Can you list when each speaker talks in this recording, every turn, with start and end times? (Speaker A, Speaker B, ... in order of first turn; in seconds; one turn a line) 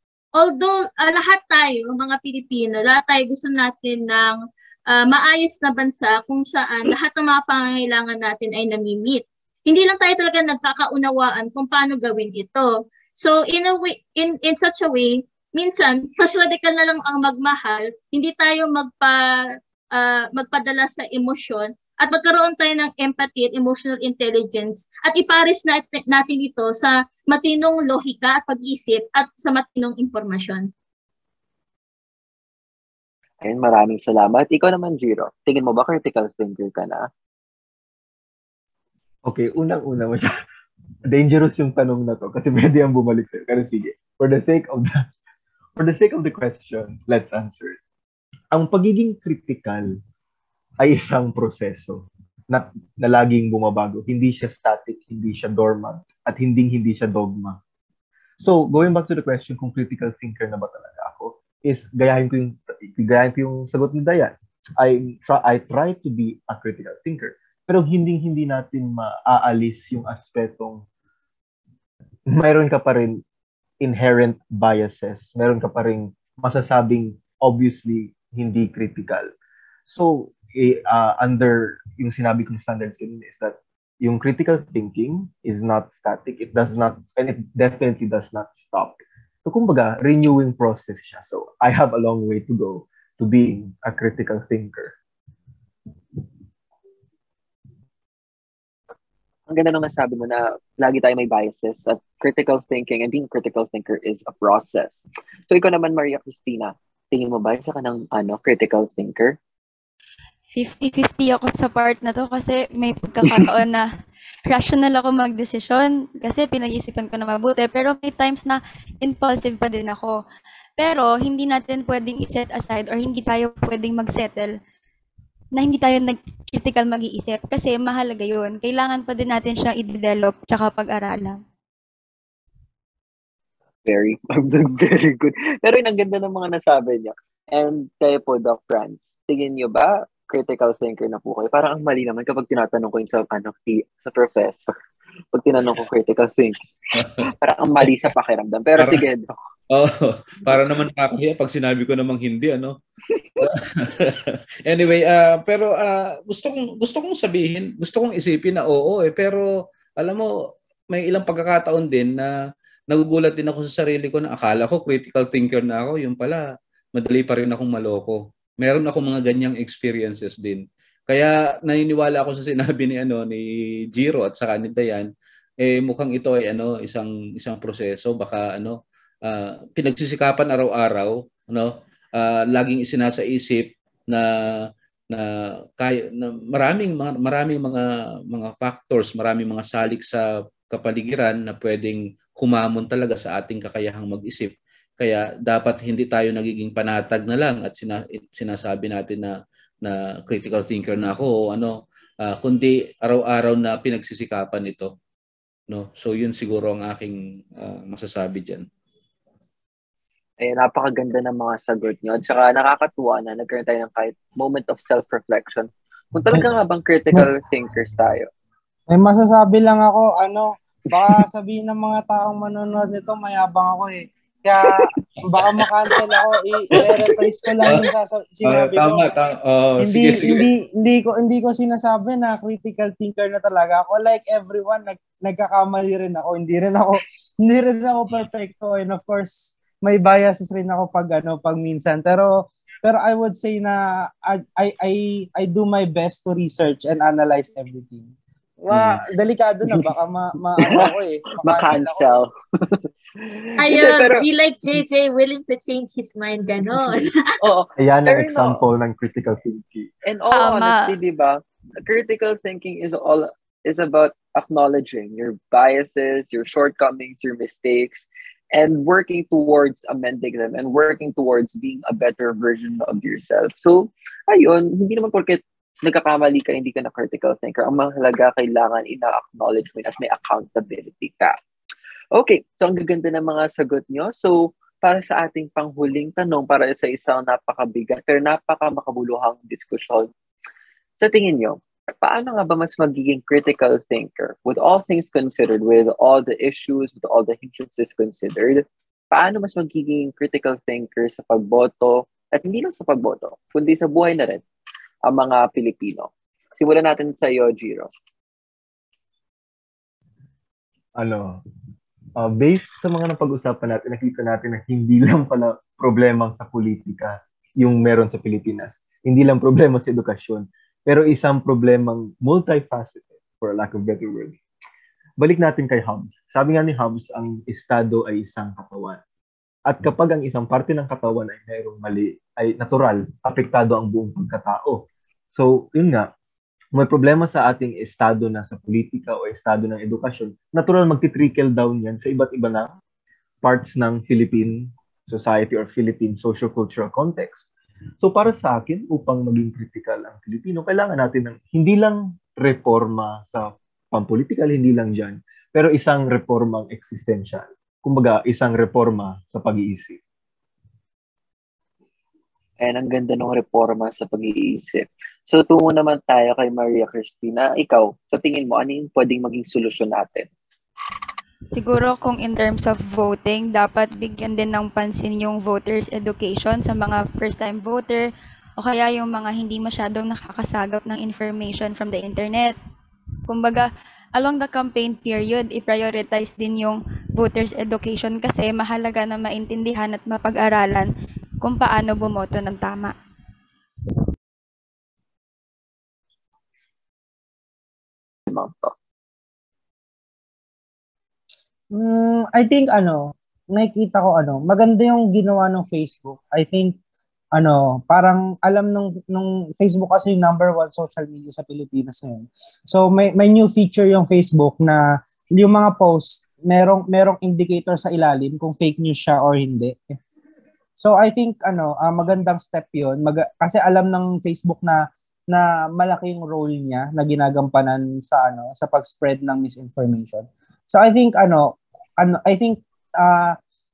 Speaker A: 0.4-4.4
Speaker A: 4.9-30.7
Speaker B: 33.4-37.1
Speaker C: 39.2-40.4
Speaker C: 41.0-45.1
Speaker C: 45.8-47.8
Speaker C: 48.5-50.0
Speaker C: 50.8-57.6
Speaker C: 58.4-70.8
Speaker C: 72.2-73.2
Speaker C: 73.8-79.3
Speaker C: 79.9-94.9
Speaker B: 99.5-109.3
Speaker D: 110.5-113.8
Speaker D: 114.5-120.2
Speaker D: 120.8-124.5
Speaker D: 125.5-131.4
Speaker B: 133.8-144.7
Speaker B: 145.3-146.6
Speaker E: 146.9-147.2
Speaker B: 147.2-149.3
Speaker E: 148.8-149.0
Speaker E: 149.7-152.8
Speaker B: 153.2-153.5
Speaker E: 153.4-160.3
Speaker E: 160.9-162.3
Speaker E: 162.9-204.9
Speaker E: 205.7-208.6
Speaker B: 210.4-218.3
Speaker F: 218.9-229.1
Speaker E: 226.7-227.9
Speaker E: 228.4-230.5
Speaker F: 229.8-252.1
Speaker E: 248.7-249.0
Speaker B: 251.4-254.3
Speaker A: 253.6-257.4
Speaker B: 256.7-258.6
Speaker C: 257.8-259.9
Speaker B: 260.1-281.4
Speaker D: 260.3-260.9
Speaker B: 282.1-290.1
Speaker B: 291.0-304.4
Speaker B: 305.1-307.9
Speaker C: 311.0-311.4
Speaker C: 312.1-324.4
Speaker C: 325.2-329.0
Speaker C: 329.7-336.1
Speaker C: 336.7-342.7
Speaker C: 343.4-347.5
Speaker C: 348.0-360.0
Speaker B: 362.6-370.3
Speaker D: 371.5-378.1
Speaker D: 378.6-382.5
Speaker D: 383.3-390.9
Speaker D: 391.4-392.9
Speaker B: 398.3-398.7
Speaker F: 401.7-406.8
Speaker F: 407.4-420.0
Speaker F: 420.8-433.4